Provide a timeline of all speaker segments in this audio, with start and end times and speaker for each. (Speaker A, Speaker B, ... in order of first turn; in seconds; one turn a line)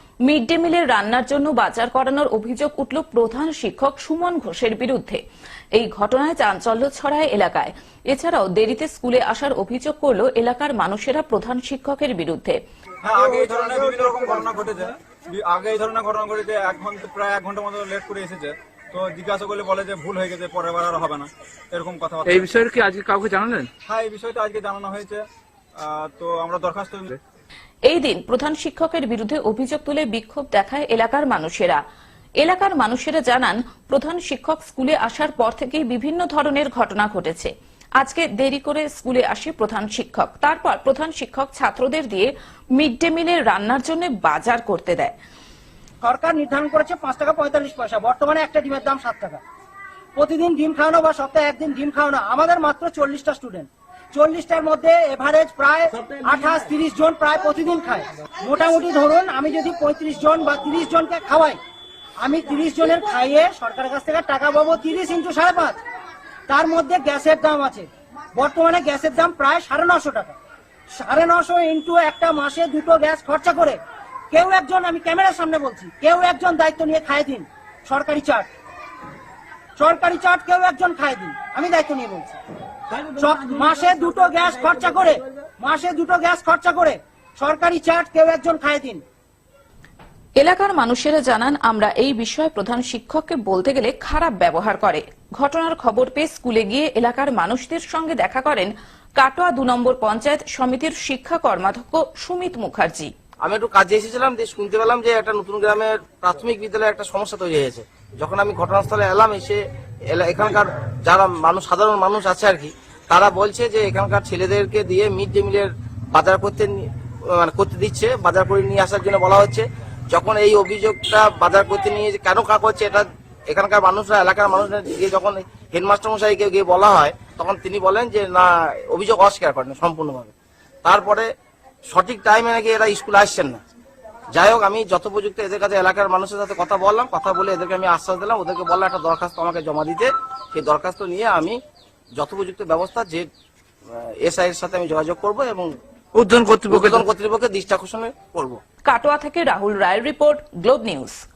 Speaker A: 0.3-5.2
Speaker A: 5.7-12.6
Speaker B: 13.0-22.6
Speaker C: 22.2-23.7
Speaker B: 23.9-25.2
Speaker B: 25.8-27.1
Speaker A: 27.9-31.8
Speaker A: 32.4-45.1
Speaker D: 46.0-49.4
Speaker D: 50.1-61.6
Speaker D: 62.2-65.8
Speaker D: 66.5-70.3
Speaker D: 71.0-73.8
Speaker D: 74.3-78.5
Speaker D: 79.8-82.4
Speaker D: 83.1-89.0
Speaker A: 90.4-103.1
Speaker E: 103.4-130.3
Speaker E: 130.8-131.3
Speaker E: 131.9-133.6
Speaker E: 134.3-141.6
Speaker E: 142.2-143.3
Speaker E: 143.9-145.7
Speaker C: 146.2-147.0
Speaker E: 146.7-148.6
Speaker A: 148.8-151.2